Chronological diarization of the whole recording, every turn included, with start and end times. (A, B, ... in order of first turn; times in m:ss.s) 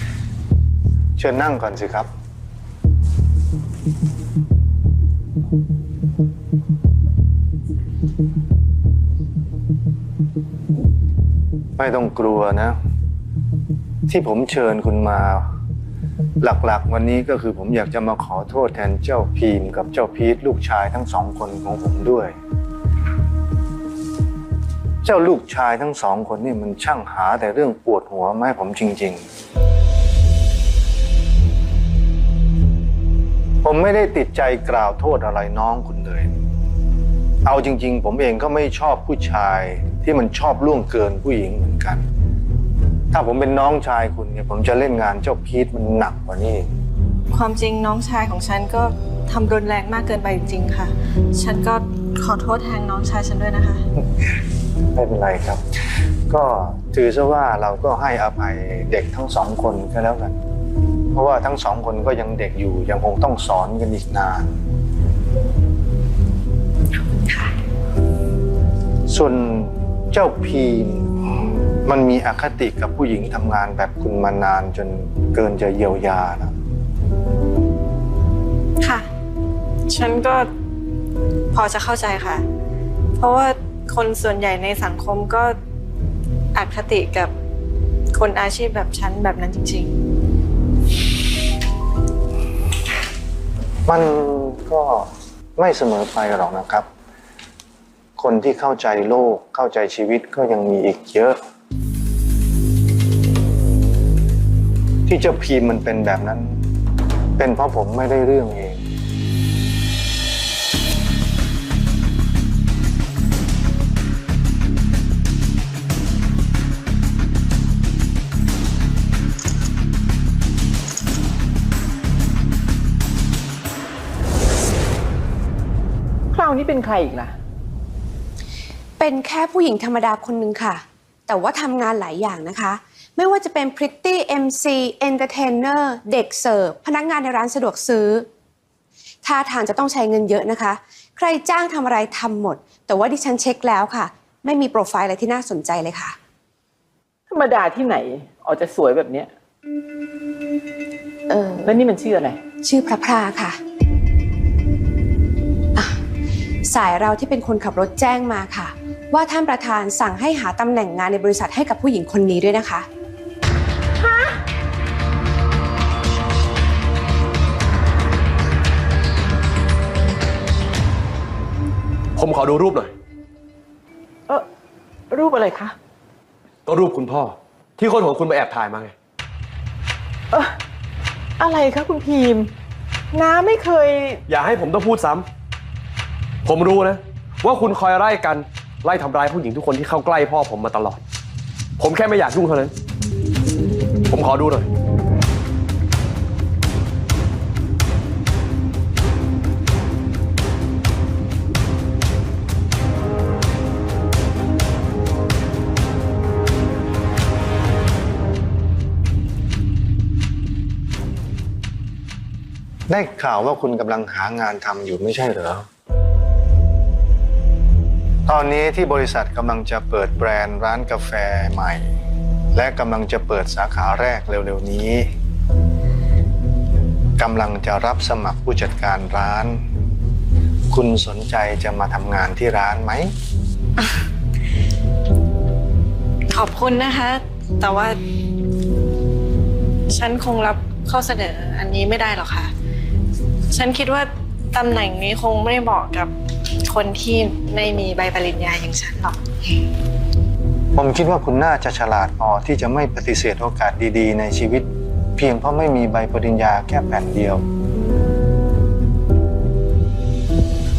0:01.2-0:02.1 A
0:11.8-0:12.8 A
0:14.1-0:15.5 A
0:16.4-0:22.3 A
0:25.0-0:29.2 A
0:33.6-0:36.3 A
0:37.4-0:42.0 A
0:43.1-0:46.7 A
0:47.3-0:53.8 B
0:54.9-0:55.6 A
0:56.3-1:00.3 A
1:01.1-1:04.5 A
1:09.1-1:16.5 A
1:18.8-1:19.1 B
1:19.9-1:20.5 B
1:21.5-1:22.4 B
1:23.2-1:25.6 B
1:26.5-1:27.3 B
1:28.1-1:29.9 B
1:33.9-1:36.8 A
1:38.2-1:41.4 A
1:45.1-1:46.6 A
1:47.4-1:48.8 A
2:06.3-2:07.3 C
2:09.0-2:18.3 D
2:19.2-2:26.1 D
2:27.3-2:29.3 C
2:31.3-2:31.7 D
2:31.6-2:32.4 C
2:32.6-2:33.6 D
2:36.7-2:42.9 D
2:44.0-2:44.4 C
2:52.2-2:52.9 E
2:55.1-2:55.7 C
2:56.6-2:58.9 E
3:01.4-3:02.5 C
3:03.1-3:04.2 C
3:04.3-3:05.2 E
3:06.4-3:11.0 E
3:11.8-3:12.7 E
3:14.1-3:14.7 E
3:32.9-3:35.7 A
3:38.3-3:41.9 A
3:42.5-3:45.1 A
3:47.2-3:49.6 A
3:50.7-3:53.1 A
3:56.3-3:58.0 B
3:59.9-4:02.5 B
4:03.5-4:06.1 B
4:06.6-4:09.2 B
4:10.8-4:17.4 A